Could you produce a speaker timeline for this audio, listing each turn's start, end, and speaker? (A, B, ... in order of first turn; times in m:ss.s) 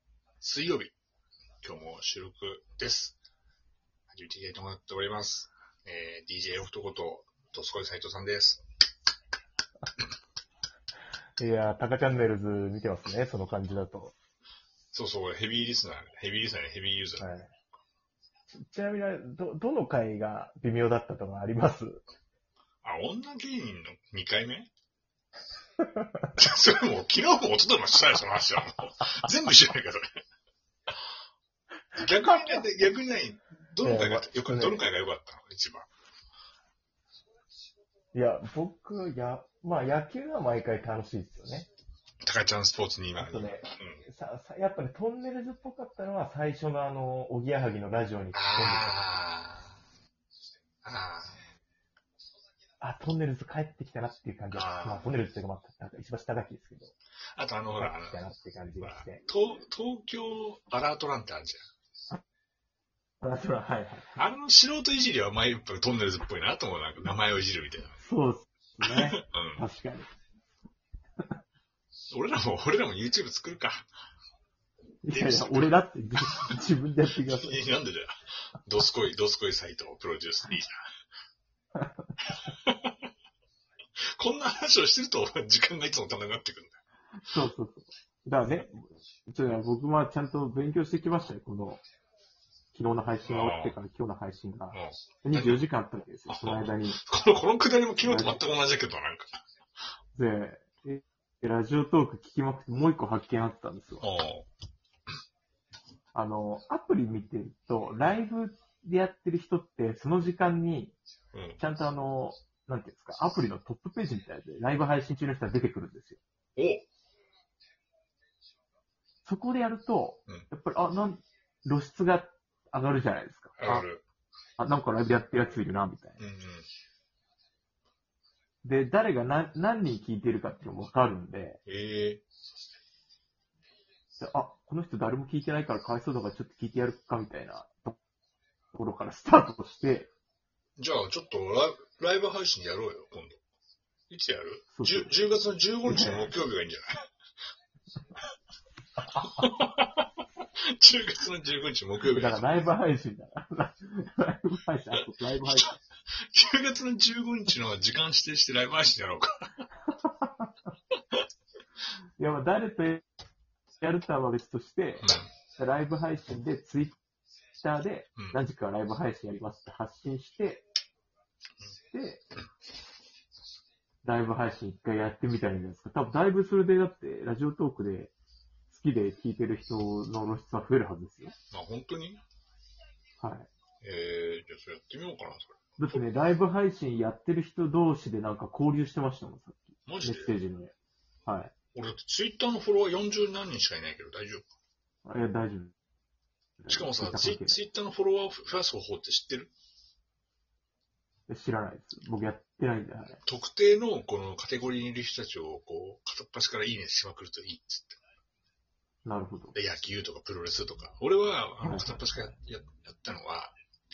0:00.4-0:00.9 A
0:01.6-0:03.2 A
0:04.1-0:08.6 A
0:11.4-0:14.1 B
0:14.9-0:17.3 A
0:17.2-0:17.5 B
0:18.6-0:22.0 B
0:22.8-0:24.7 A
0:25.8-0:26.1 B
0:26.4-0:30.0 A
0:31.9-0:35.9 A
0:32.0-0:32.7 B
0:33.8-0:34.8 B
0:38.1-0:41.7 B
0:42.2-0:44.0 A
0:43.2-0:49.1 B
0:48.3-0:49.8 A
0:50.8-0:51.5 A
0:52.8-0:56.9 B
0:54.5-0:55.1 A
0:57.3-0:58.2 A
0:57.8-0:59.2 B
0:58.8-1:01.6 A
1:03.2-1:04.2 B
1:04.2-1:08.0 A
1:08.0-1:10.1 B
1:09.2-1:09.6 A
1:12.1-1:13.9 A
1:15.0-1:17.6 B
1:15.1-1:16.6 A
1:17.2-1:20.8 A
1:21.8-1:22.1 B
1:22.3-1:23.0 A
1:24.2-1:26.8 A
1:27.2-1:31.8 B
1:32.7-1:37.0 B
1:33.2-1:33.8 A
1:34.7-1:35.6 A
1:36.3-1:39.3 A
1:38.0-1:38.4 B
1:40.1-1:44.0 B
1:44.0-1:44.5 A
1:46.1-1:51.0 B
1:51.3-1:51.6 A
1:51.6-1:56.2 B
1:56.6-1:56.8 A
1:59.2-2:03.9 B
2:03.6-2:04.0 A
2:04.6-2:06.2 B
2:06.2-2:06.7 A
2:08.6-2:11.6 B
2:11.6-2:12.2 A
2:14.2-2:18.0 B
2:18.7-2:20.1 B
2:20.8-2:23.4 A
2:24.1-2:26.9 A
2:24.7-2:25.1 B
2:25.8-2:26.3 B
2:29.4-2:30.0 A
2:30.7-2:32.6 A
2:32.0-2:35.8 B
2:36.3-2:39.3 A
2:39.8-2:40.5 B
2:42.2-2:43.0 B
2:43.8-2:47.0 B
2:45.0-2:45.3 A
2:47.6-2:50.6 B
2:51.9-2:52.2 B
2:54.0-2:58.1 B
2:58.7-3:01.3 B
3:01.5-3:02.2 A
3:03.2-3:03.5 B
3:03.8-3:06.0 A
3:05.8-3:10.7 B
3:09.8-3:10.4 A
3:11.2-3:11.5 B
3:11.7-3:14.5 A
3:15.0-3:15.7 B
3:16.6-3:17.6 B
3:16.7-3:19.5 A
3:21.3-3:23.2 B
3:23.2-3:28.0 A
3:29.0-3:29.6 B
3:29.5-3:33.5 A
3:31.6-3:32.0 B